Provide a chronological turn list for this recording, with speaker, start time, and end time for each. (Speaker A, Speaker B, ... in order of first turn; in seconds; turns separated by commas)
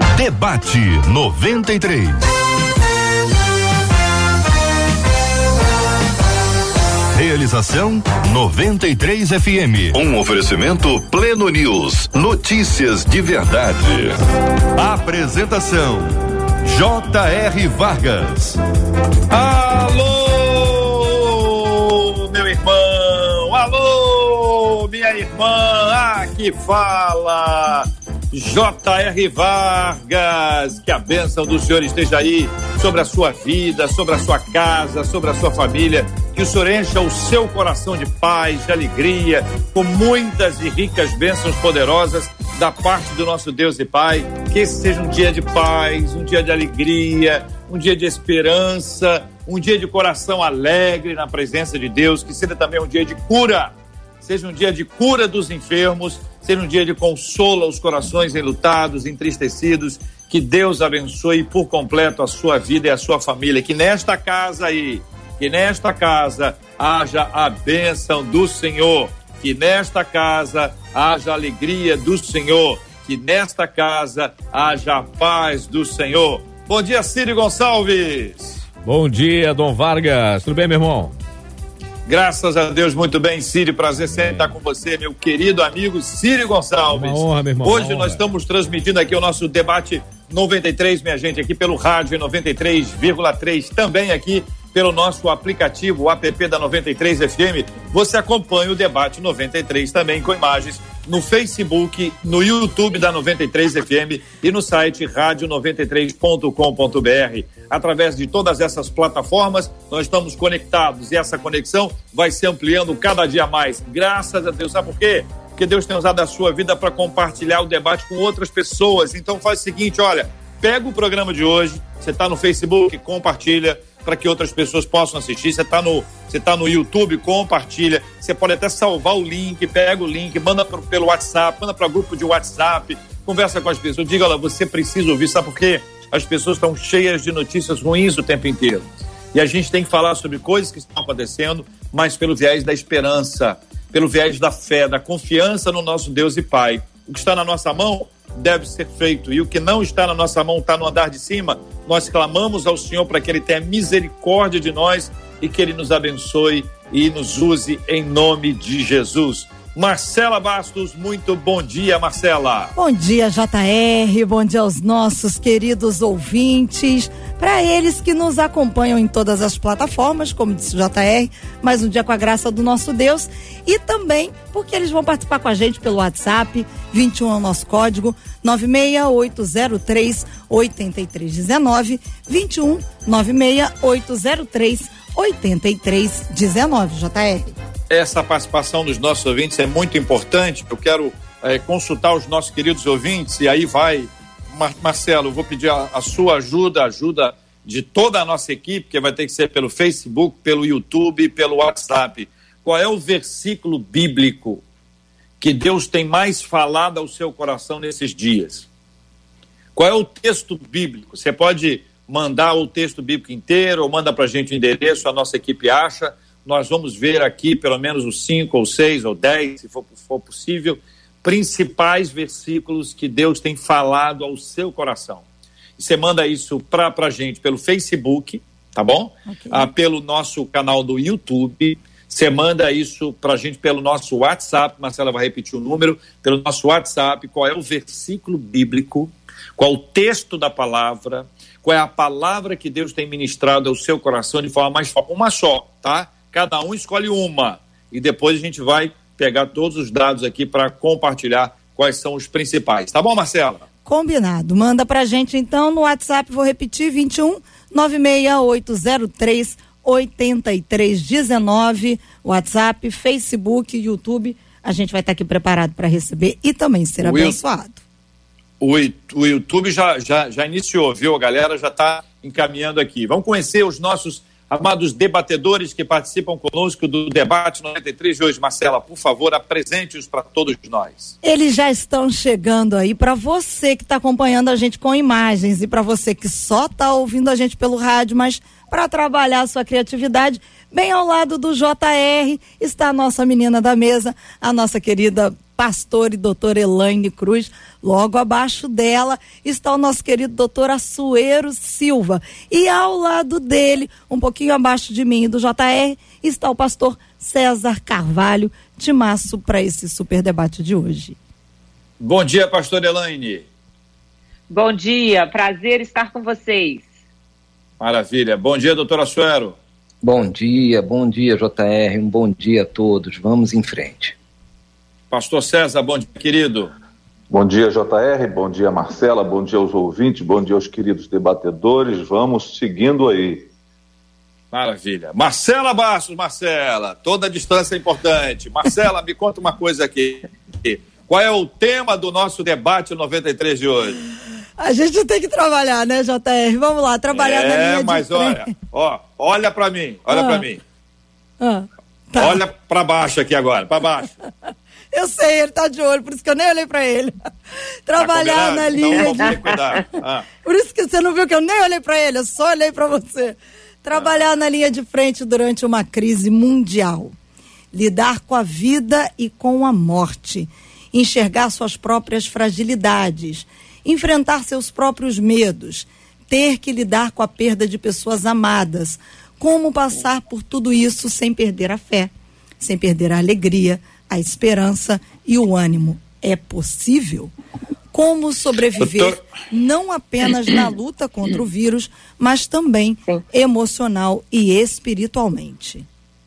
Speaker A: 0.1-2.3, Speaker A: 7.1-14.2, Speaker A: 14.7-18.6, Speaker B: 19.3-78.7, Speaker C: 78.8-81.1, Speaker B: 82.0-162.7, Speaker C: 84.1-84.5, Speaker C: 86.9-88.2, Speaker D: 162.8-187.5, Speaker B: 187.9-204.6, Speaker B: 205.4-208.7, Speaker B: 209.7-225.2, Speaker B: 225.8-253.6, Speaker D: 229.3-229.7, Speaker D: 253.8-267.8, Speaker B: 267.0-267.4, Speaker B: 268.6-281.1, Speaker D: 281.2-311.2, Speaker B: 312.0-313.4, Speaker E: 314.5-316.9, Speaker B: 317.8-319.6, Speaker F: 320.0-324.1, Speaker B: 325.1-326.7, Speaker G: 327.3-333.5, Speaker B: 334.5-344.0, Speaker D: 344.6-348.5, Speaker B: 347.1-350.6, Speaker D: 350.1-350.4, Speaker D: 351.4-352.4, Speaker B: 352.2-354.1, Speaker D: 354.9-357.1, Speaker D: 357.9-359.8, Speaker B: 358.0-360.2, Speaker D: 360.4-367.1, Speaker D: 367.7-387.3, Speaker D: 387.9-395.9, Speaker B: 388.8-389.2